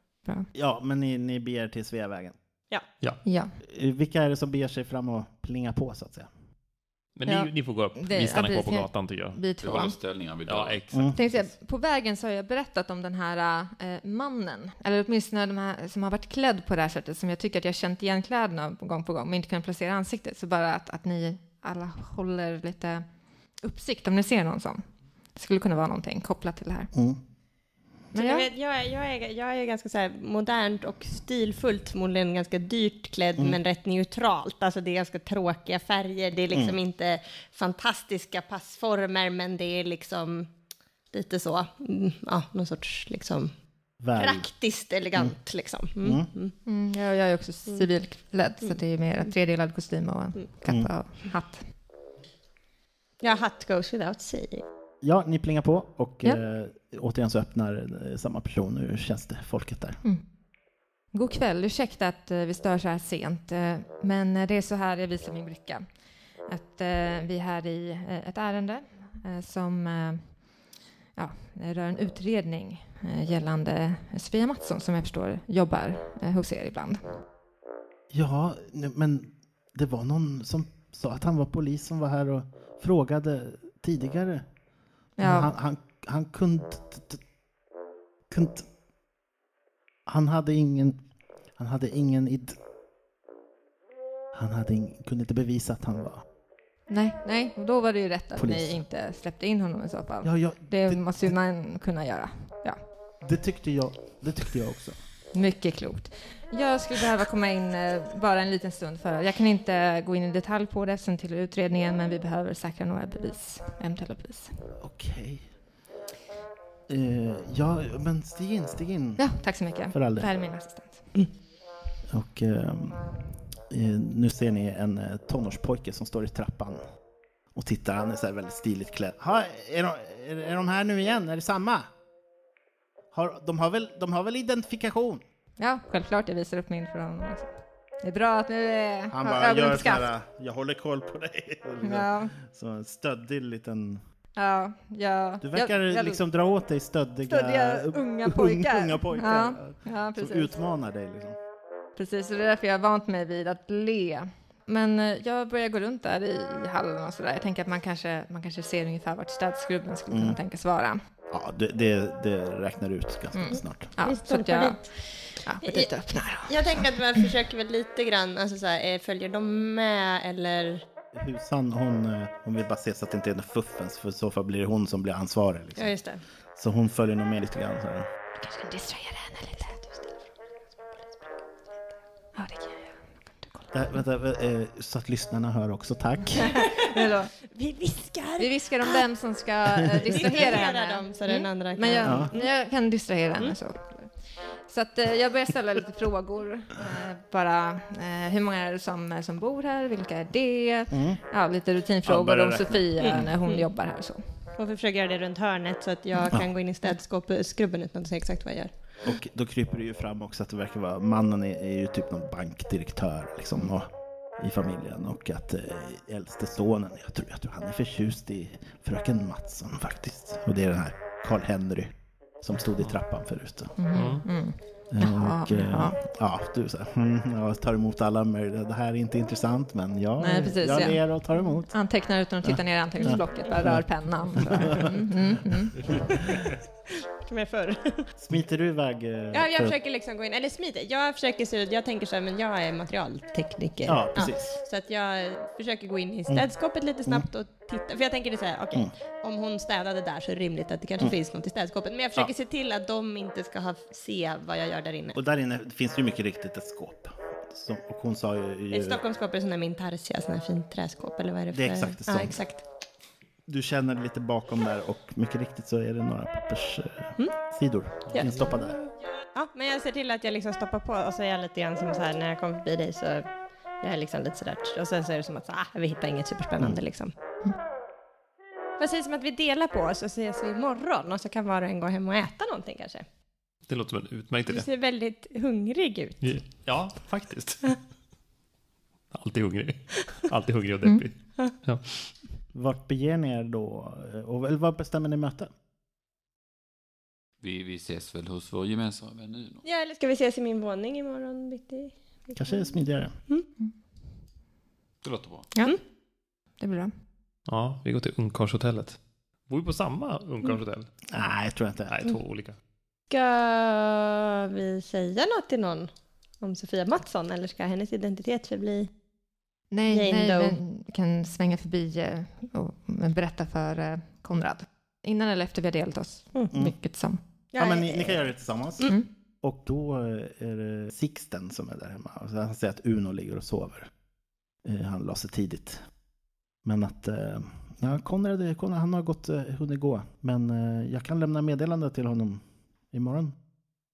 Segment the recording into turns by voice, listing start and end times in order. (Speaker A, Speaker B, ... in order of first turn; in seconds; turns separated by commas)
Speaker A: 0.6-2.4, Speaker B: 3.2-3.5, Speaker A: 3.6-6.3, Speaker C: 7.2-9.4, Speaker B: 7.3-10.0, Speaker D: 9.6-10.8, Speaker C: 10.4-11.5, Speaker A: 10.9-11.2, Speaker B: 11.1-23.1, Speaker B: 23.6-26.9, Speaker A: 26.9-27.2, Speaker B: 28.1-28.5, Speaker E: 28.1-40.5, Speaker A: 36.5-36.8, Speaker E: 41.1-43.6, Speaker A: 44.0-44.5, Speaker E: 44.2-46.5, Speaker A: 46.0-46.3, Speaker B: 46.7-51.6, Speaker A: 50.7-50.9, Speaker E: 53.2-54.6, Speaker A: 55.0-60.0, Speaker B: 61.1-65.8, Speaker B: 66.5-70.3, Speaker B: 71.2-77.1, Speaker A: 78.1-84.5, Speaker B: 85.2-85.5, Speaker A: 85.2-87.2, Speaker A: 88.3-88.7, Speaker A: 90.1-91.0, Speaker A: 91.6-92.6, Speaker A: 94.3-96.2, Speaker B: 96.9-102.8, Speaker A: 98.3-98.8, Speaker A: 100.2-101.4, Speaker A: 103.2-105.0, Speaker B: 105.3-114.5, Speaker A: 114.8-115.5, Speaker A: 116.9-119.3, Speaker B: 119.2-121.1, Speaker A: 119.9-120.3, Speaker A: 122.1-123.2, Speaker A: 123.7-126.8, Speaker A: 127.5-131.9, Speaker A: 133.1-135.2, Speaker B: 135.6-137.5, Speaker B: 138.0-140.1, Speaker A: 139.1-144.0, Speaker B: 141.8-142.3, Speaker B: 144.4-146.2, Speaker A: 145.4-151.4, Speaker B: 147.3-150.5, Speaker B: 152.0-161.0, Speaker A: 160.1-160.4, Speaker A: 161.3-163.9, Speaker B: 163.3-167.3, Speaker E: 163.5-164.8, Speaker E: 165.6-170.8, Speaker A: 171.1-175.9, Speaker E: 175.8-176.2, Speaker A: 176.6-178.1, Speaker B: 178.4-179.8, Speaker E: 179.5-180.3, Speaker B: 182.3-183.7, Speaker A: 183.7-186.7, Speaker E: 186.5-189.0, Speaker B: 186.6-187.3, Speaker B: 188.4-194.1, Speaker E: 189.9-192.5, Speaker A: 192.0-192.3, Speaker B: 194.7-204.2, Speaker A: 200.9-201.2, Speaker A: 202.1-203.3, Speaker E: 203.0-203.7, Speaker E: 204.6-208.7, Speaker A: 209.0-213.9, Speaker A: 214.4-223.8, Speaker B: 223.8-225.9, Speaker C: 223.9-224.3, Speaker A: 224.9-231.8, Speaker B: 230.2-236.0, Speaker A: 232.4-234.9, Speaker E: 233.0-233.6, Speaker A: 235.8-236.4, Speaker E: 235.8-238.1, Speaker A: 238.2-239.8, Speaker E: 239.3-255.2, Speaker A: 243.9-244.6, Speaker A: 255.2-259.0, Speaker E: 258.7-262.6, Speaker A: 261.5-262.4, Speaker A: 263.5-268.8, Speaker E: 268.1-273.3, Speaker E: 273.8-277.1, Speaker E: 278.8-283.1, Speaker C: 283.7-284.7, Speaker E: 284.5-286.5, Speaker C: 286.2-287.8, Speaker C: 289.1-291.9, Speaker A: 292.5-295.5, Speaker D: 297.4-299.6, Speaker E: 299.6-302.7, Speaker A: 302.4-303.1, Speaker D: 305.0-305.5, Speaker B: 305.5-305.8, Speaker B: 306.6-306.9, Speaker C: 307.5-310.9, Speaker A: 311.1-312.0, Speaker C: 311.9-312.6, Speaker E: 313.1-315.9, Speaker E: 316.4-318.9, Speaker B: 319.7-327.2, Speaker E: 319.9-320.6, Speaker E: 327.5-328.3, Speaker A: 327.6-333.9, Speaker A: 334.6-335.8, Speaker A: 336.6-343.4